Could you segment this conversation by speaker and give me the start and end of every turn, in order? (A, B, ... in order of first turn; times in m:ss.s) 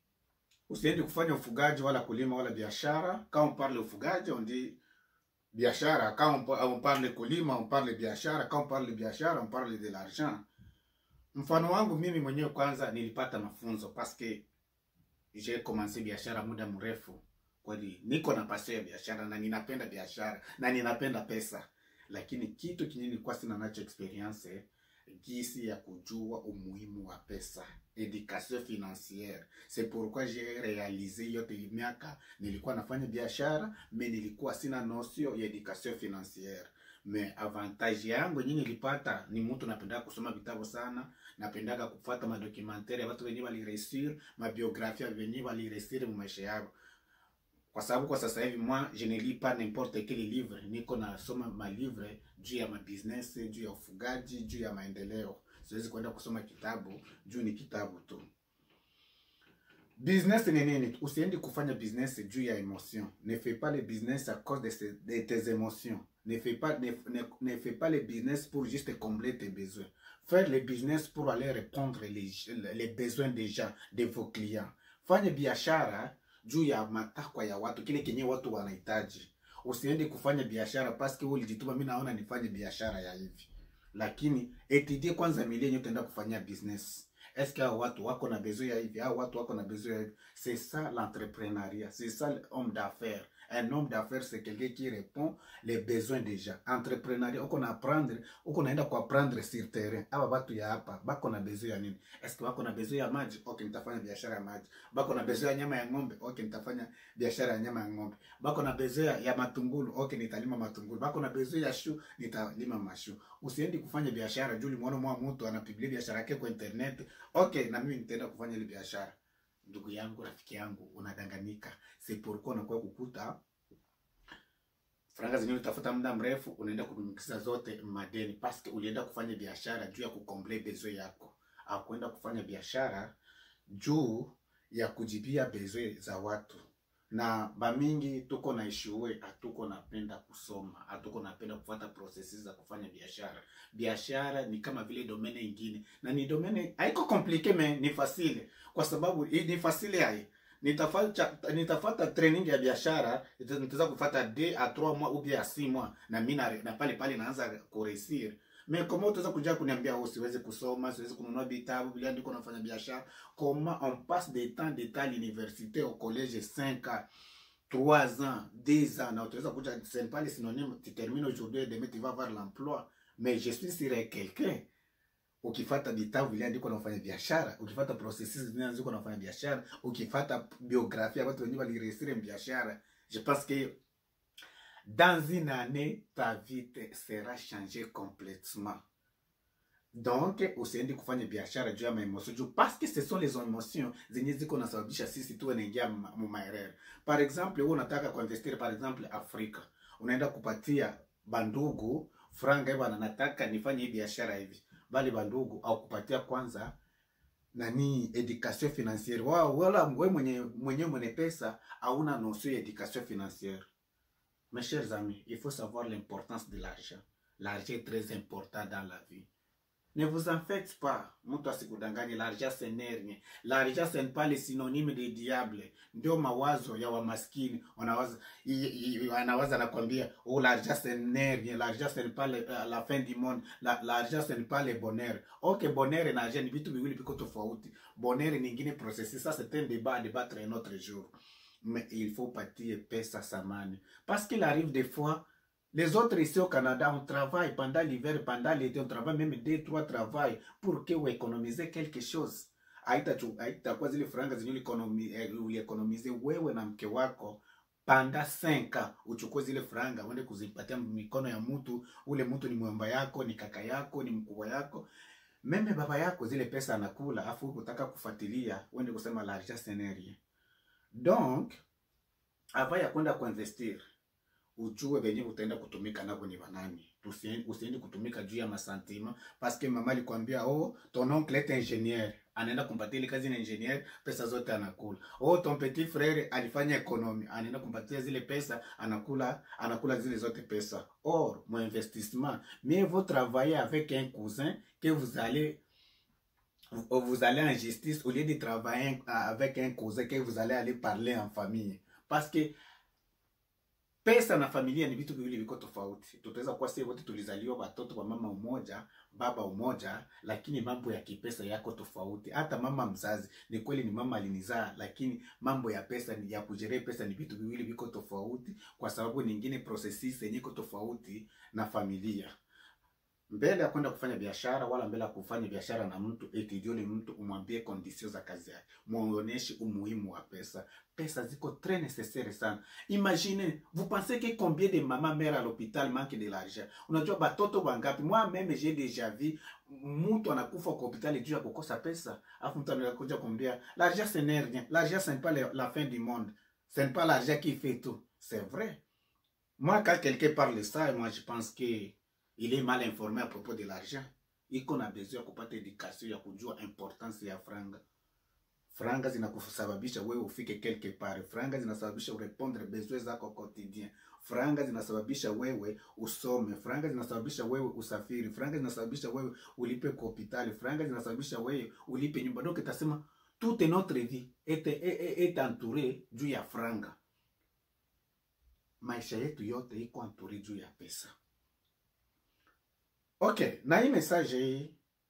0:00.7-0:04.8 A
0:05.5-0:10.4 A
0:11.3-0:14.4 A
0:15.3-0:46.7 A
0:47.7-0:58.2 A
1:00.0-2:03.4 A
2:05.1-2:13.1 A
2:13.7-2:47.1 A
2:47.7-2:54.7 A
2:55.4-3:03.8 A
3:04.8-3:08.8 A
3:09.9-3:26.8 A
3:27.5-3:33.6 A
3:34.5-3:39.3 A
3:39.9-4:24.8 A
4:25.4-4:30.2 A
4:30.9-4:31.6 A
4:32.5-4:33.8 A
4:34.6-4:55.6 A
4:56.7-5:02.5 A
5:04.0-5:22.3 A
5:23.3-5:48.8 A
5:49.6-5:57.8 A
5:58.7-6:17.0 A
6:18.8-6:21.1 A
6:23.2-6:24.8 A